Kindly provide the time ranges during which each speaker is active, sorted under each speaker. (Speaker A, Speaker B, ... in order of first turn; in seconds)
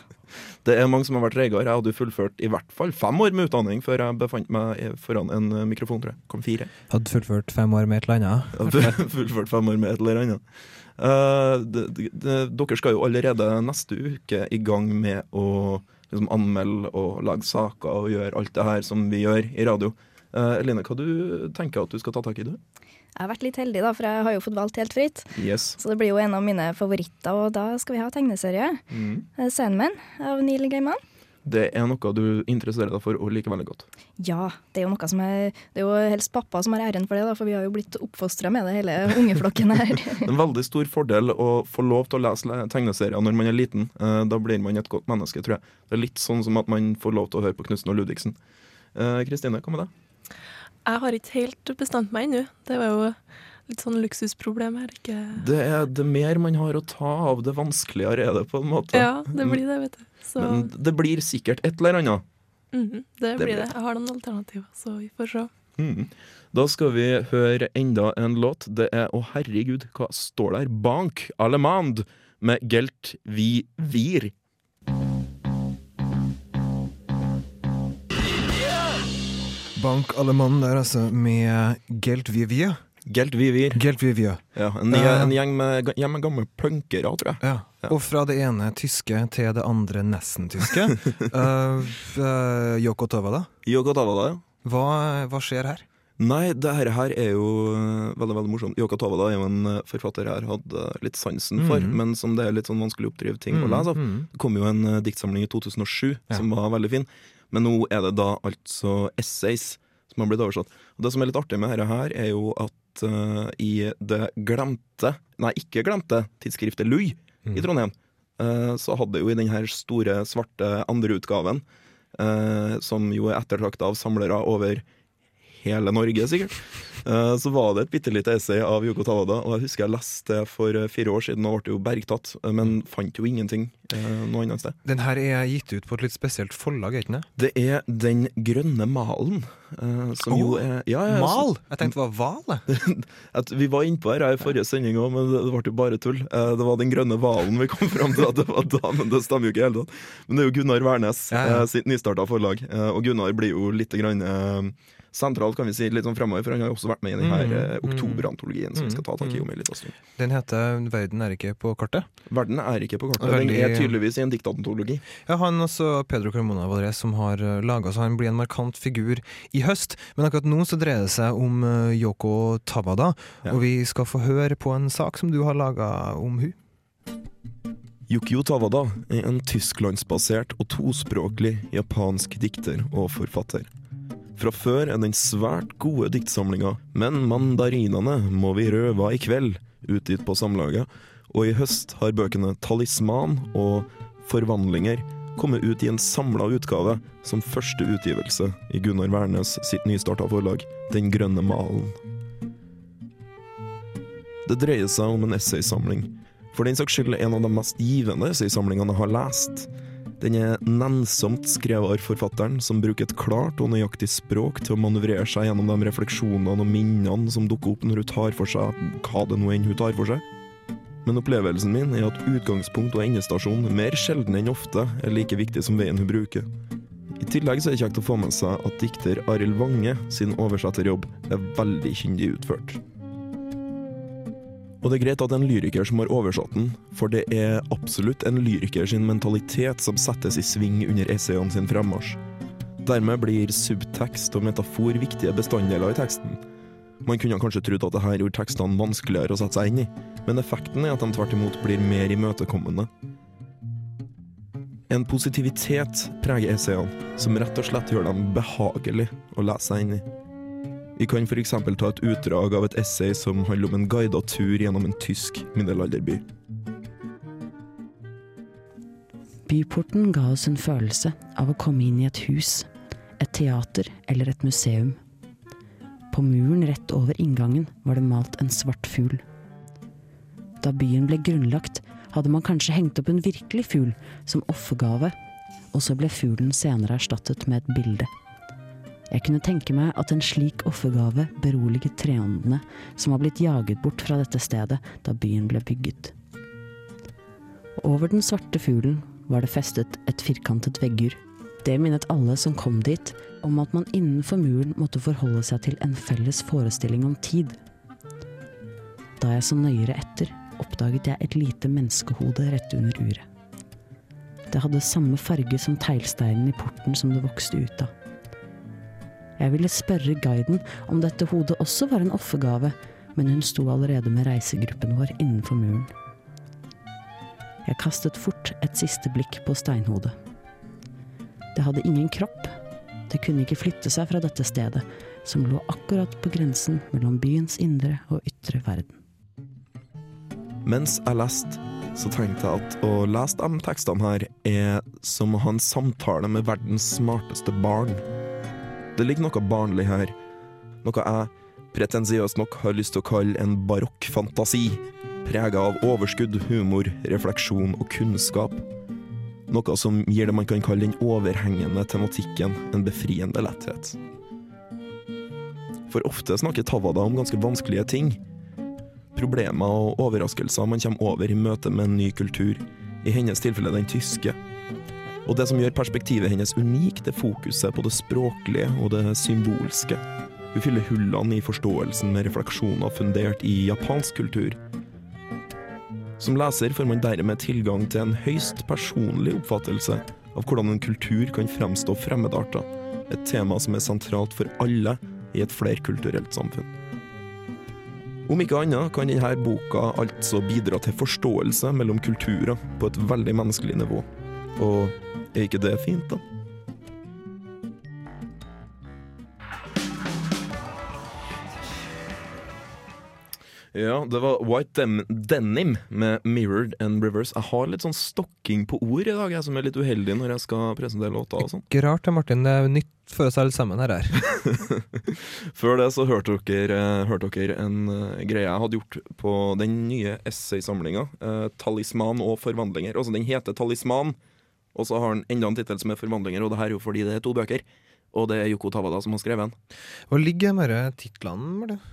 Speaker A: 0.6-6.7, 8.6-10.4, 11.0-22.6, 25.4-25.8, 28.9-29.2, 31.4-33.9, 40.2-48.4, 48.9-49.9, 55.3-59.6, 60.4-62.2, 63.4-63.7, 65.8-74.3, 83.0-83.8, 84.5-87.9, 93.6-94.4, 96.2-124.8, 125.5-134.8, 137.3-141.9, 142.7-159.9, 162.3-165.0, 178.1-183.7, 184.3-202.0, 204.4-220.2, 221.0-226.5, 227.2-232.8, 234.8-242.2, 242.8-246.4, 247.0-252.9, 254.9-260.1, 261.0-266.2, 340.6-348.0, 348.9-350.1, 350.8-358.6, 359.5-364.0, 365.9-368.2, 369.1-374.4, 375.2-380.0, 380.5-384.6, 386.2-396.7, 398.3-406.2, 413.7-421.6, 424.4-434.2, 434.7-439.5
Speaker B: 6.9-9.0, 79.8-82.8, 83.7-85.3, 87.4-93.5, 94.6-95.8, 101.6-102.0, 103.5-104.3, 134.8-137.3, 140.3-142.7, 151.3-151.7, 157.2-159.4, 160.2-162.1, 163.2-163.9, 165.2-176.6, 421.7-424.2, 440.1-441.8
Speaker C: 23.2-28.8, 29.4-31.0, 34.2-40.3
Speaker D: 50.9-55.4, 58.9-60.7, 62.7-65.5
Speaker E: 269.4-272.7, 273.2-275.0, 276.1-279.2, 280.6-285.1, 285.7-288.1, 289.1-296.1, 297.8-307.6, 309.2-313.2, 314.5-317.9, 319.4-325.9, 327.6-330.1, 331.5-332.5, 333.1-339.0